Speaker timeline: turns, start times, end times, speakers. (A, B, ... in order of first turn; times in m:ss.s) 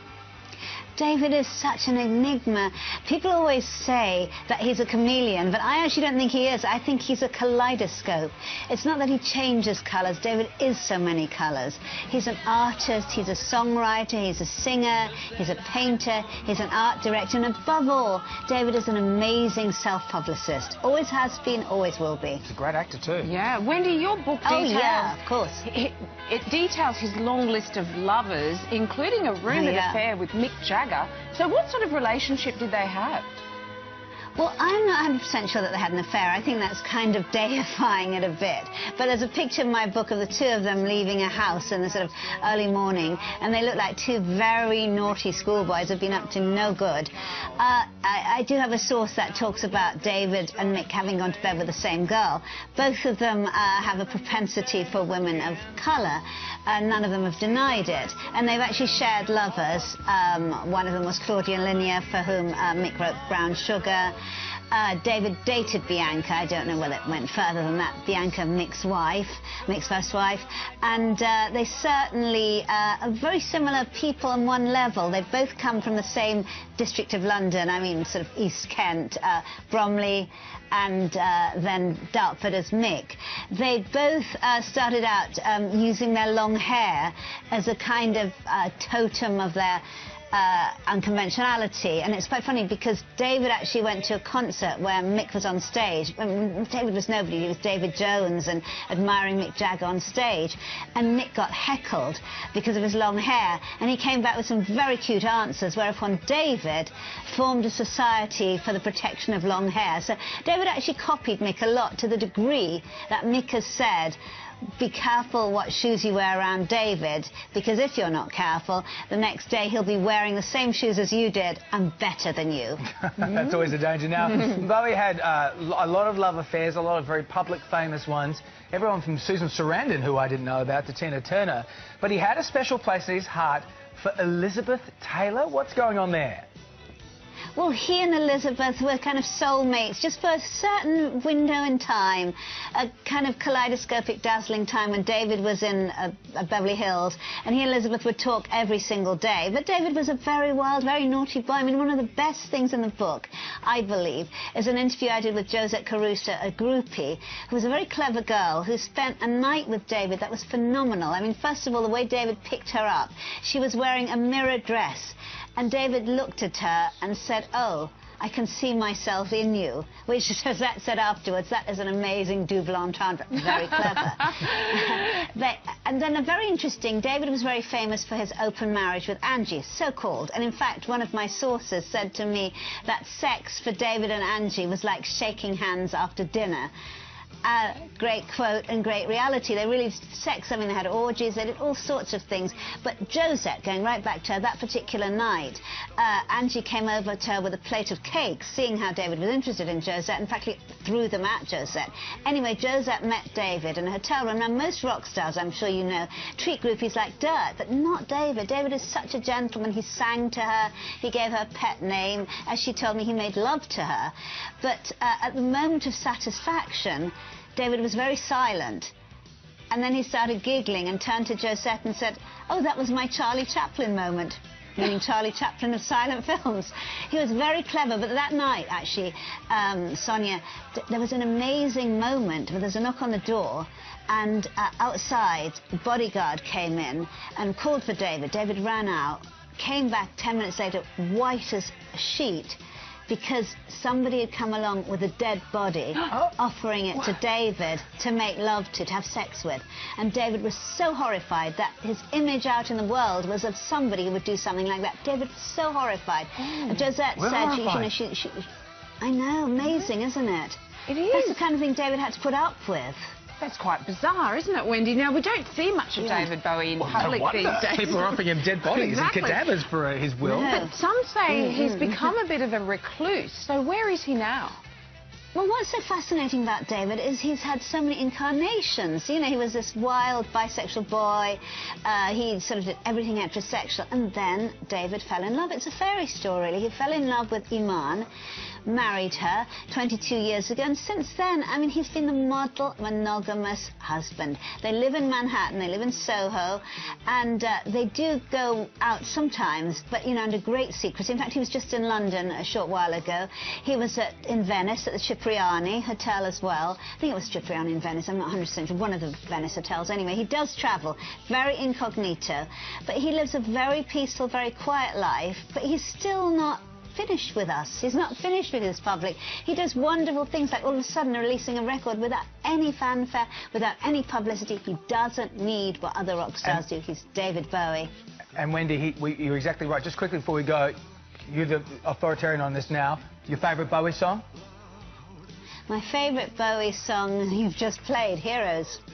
0:01.0-0:22.4 A
0:22.5-0:23.3 B
0:23.2-0:33.3 C
0:24.4-0:25.6 A
0:29.5-0:30.0 A
0:34.4-1:04.1 A
1:04.7-1:54.2 A
1:54.8-2:02.9 A
2:03.0-2:16.5 B
2:17.6-3:06.7 A
3:07.4-3:38.9 A
3:39.7-4:18.5 A
4:16.4-4:16.9 C
4:17.2-4:17.9 B
4:19.0-4:23.1 A
4:20.9-4:21.4 C
4:23.4-4:29.5 C
4:26.0-4:26.3 A
4:26.8-4:30.6 B
4:30.2-4:30.8 A
4:30.4-4:34.6 C
4:35.3-4:48.1 A
4:48.7-5:27.9 A
5:28.4-5:30.8 B
5:31.3-5:34.2 B
5:35.7-5:38.8 A